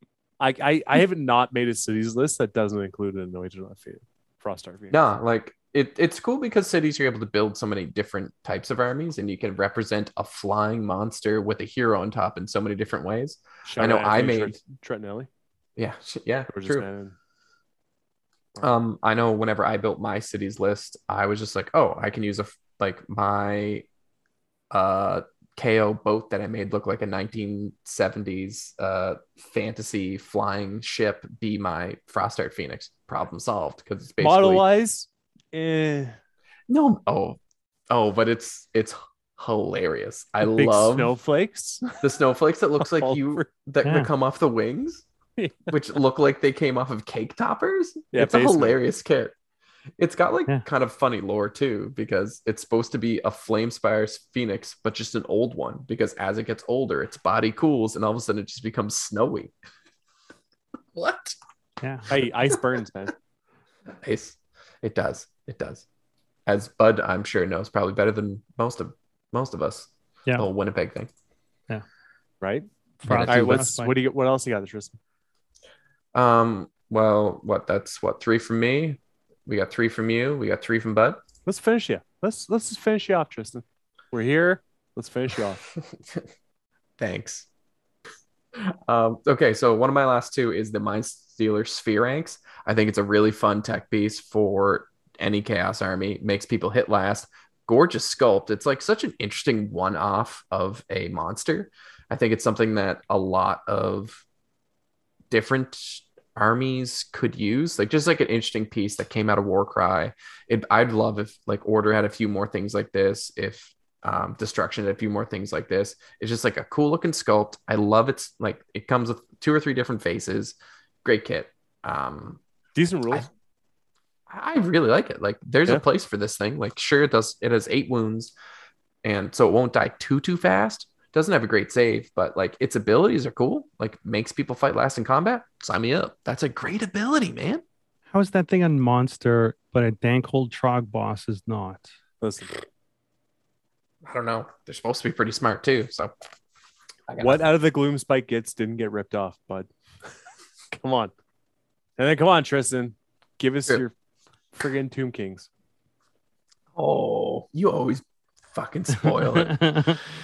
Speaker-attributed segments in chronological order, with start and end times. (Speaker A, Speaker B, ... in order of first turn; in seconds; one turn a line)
Speaker A: 0.4-5.0
Speaker B: 4.9-14.6
Speaker A: 13.7-15.3
Speaker B: 15.8-16.9
Speaker A: 16.5-17.2
Speaker B: 18.6-23.9
Speaker B: 24.7-34.6
Speaker A: 34.2-36.2
Speaker B: 36.7-37.4
Speaker B: 37.9-41.1
Speaker A: 40.4-42.1
Speaker B: 42.0-45.1
Speaker A: 42.8-43.5
Speaker C: 43.8-44.1
Speaker A: 45.4-45.8
Speaker B: 45.7-49.3
Speaker A: 48.1-48.8
Speaker B: 50.0-59.5
Speaker B: 60.9-61.4
Speaker C: 61.8-62.1
Speaker A: 62.1-63.1
Speaker B: 64.0-65.9
Speaker B: 66.5-71.1
Speaker A: 72.4-75.0
Speaker C: 73.0-74.0
Speaker B: 73.0-73.7
Speaker B: 76.1-81.2
Speaker A: 81.5-85.6
Speaker B: 87.0-87.5
Speaker B: 88.6-104.2
Speaker B: 105.3-122.4
Speaker A: 122.8-123.3
Speaker B: 124.3-128.3
Speaker B: 129.0-137.6
Speaker C: 138.1-141.9
Speaker A: 142.2-142.6
Speaker B: 144.0-146.1
Speaker B: 147.1-147.4
Speaker A: 147.2-149.7
Speaker A: 150.7-151.1
Speaker A: 152.0-153.9
Speaker A: 154.5-155.5
Speaker B: 156.8-160.0
Speaker C: 159.3-160.0